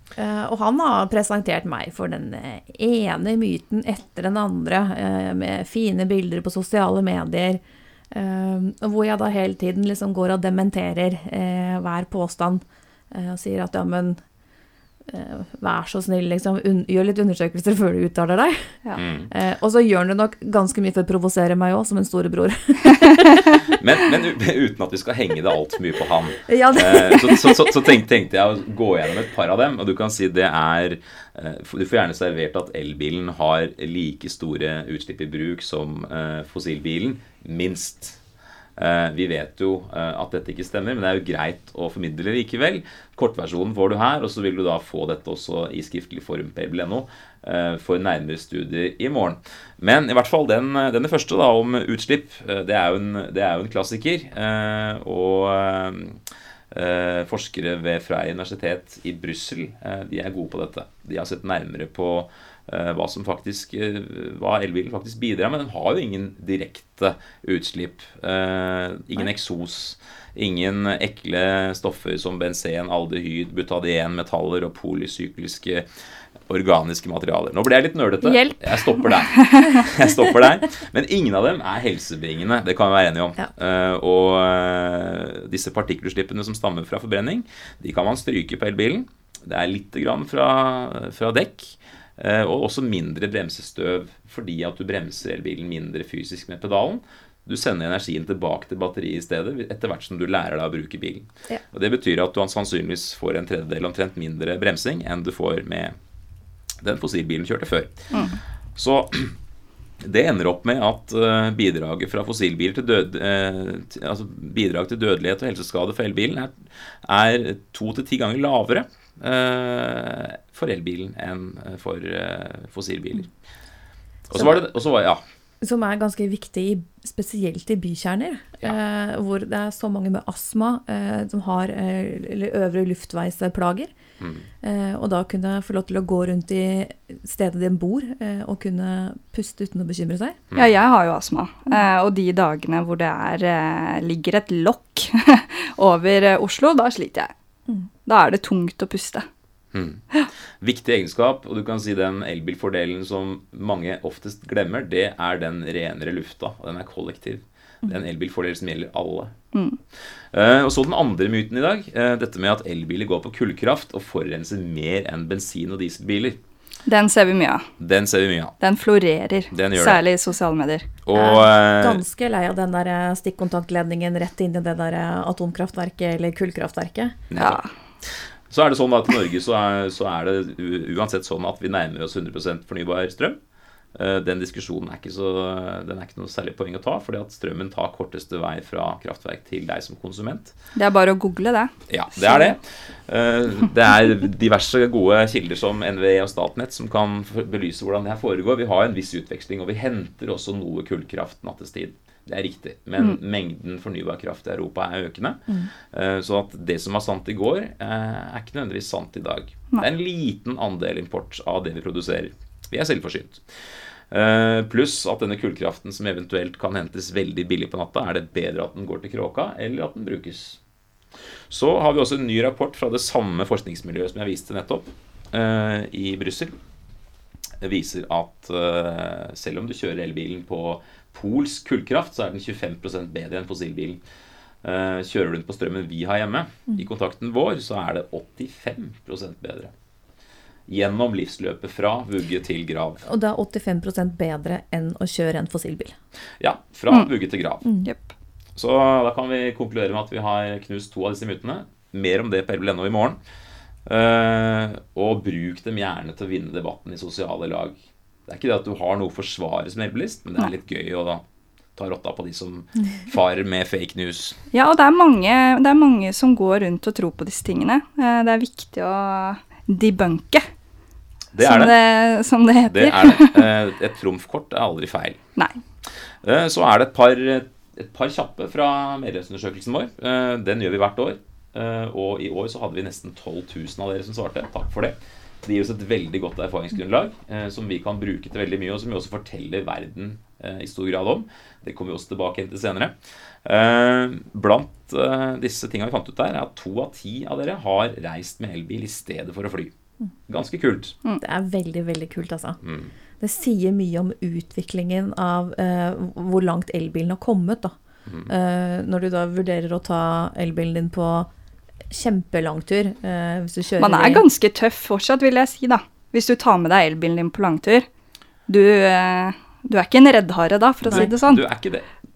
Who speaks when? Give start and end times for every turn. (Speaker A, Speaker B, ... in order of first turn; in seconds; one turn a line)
Speaker A: 0.1-7.6
Speaker A: 8.1-14.2
Speaker A: 15.1-18.8
Speaker B: 18.9-19.3
Speaker A: 19.3-23.5
Speaker B: 23.6-38.2
Speaker A: 26.5-27.8
Speaker B: 38.8-75.9
Speaker B: 76.5-106.0
Speaker C: 79.2-79.8
Speaker B: 106.8-108.1
Speaker B: 108.8-109.4
Speaker B: 110.0-123.3
Speaker B: 124.3-125.2
Speaker A: 125.6-133.9
Speaker A: 134.6-140.4
Speaker C: 140.5-147.3
Speaker C: 148.1-149.2
Speaker B: 149.7-159.3
Speaker C: 159.5-159.8
Speaker B: 160.3-166.4
Speaker C: 166.9-167.7
Speaker B: 167.8-168.5
Speaker C: 168.6-170.9
Speaker B: 169.5-170.0
Speaker B: 171.0-172.0
Speaker A: 171.1-177.2
Speaker B: 177.3-183.4
Speaker C: 177.4-177.7
Speaker B: 183.9-190.5
Speaker C: 190.8-192.5
Speaker B: 191.9-213.4
Speaker B: 214.1-220.6
Speaker B: 221.5-226.6
Speaker B: 227.6-234.0
Speaker B: 234.6-239.7
Speaker B: 240.7-243.0
Speaker A: 243.0-245.9
Speaker B: 246.4-247.6
Speaker C: 247.8-248.1
Speaker B: 248.6-253.2
Speaker B: 253.9-261.2
Speaker B: 261.8-264.4
Speaker C: 264.5-270.4
Speaker B: 271.3-271.8
Speaker C: 271.4-273.5
Speaker B: 272.7-275.2
Speaker B: 276.2-299.7
Speaker B: 300.3-301.0
Speaker A: 301.2-302.6
Speaker A: 303.2-307.8
Speaker A: 308.3-311.3
Speaker A: 311.9-314.2
Speaker C: 313.8-317.9
Speaker C: 318.5-321.4
Speaker B: 320.8-321.9